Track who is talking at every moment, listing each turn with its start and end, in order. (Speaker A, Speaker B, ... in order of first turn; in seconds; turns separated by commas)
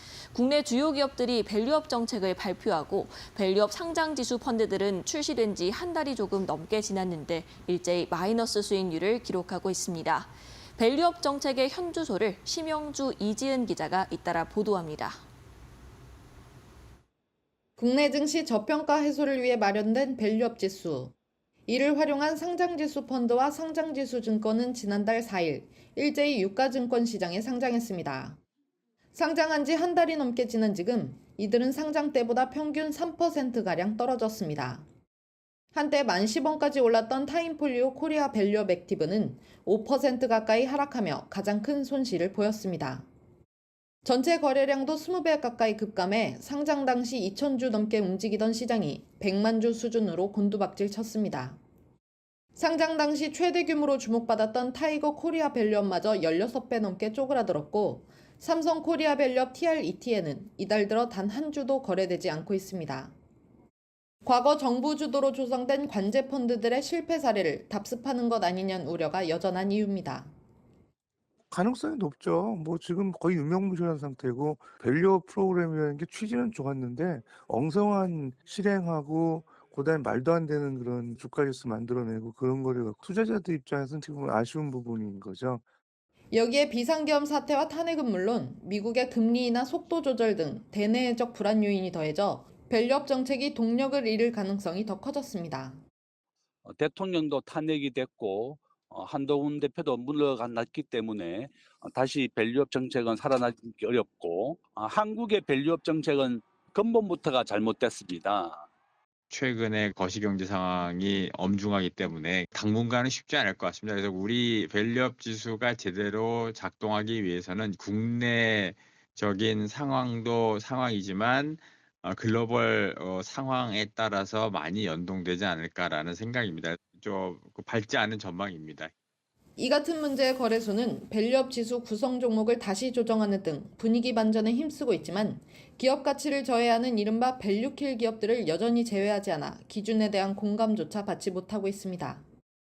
Speaker A: 0.3-15.2, Speaker B: 17.8-21.1, Speaker B: 21.7-28.4, Speaker B: 29.1-34.8, Speaker B: 35.7-43.1, Speaker B: 44.0-51.6, Speaker B: 52.5-63.1, Speaker B: 64.2-70.3, Speaker C: 71.5-85.6, Speaker B: 86.3-95.8, Speaker D: 96.6-108.7, Speaker E: 109.3-128.9, Speaker B: 129.6-142.2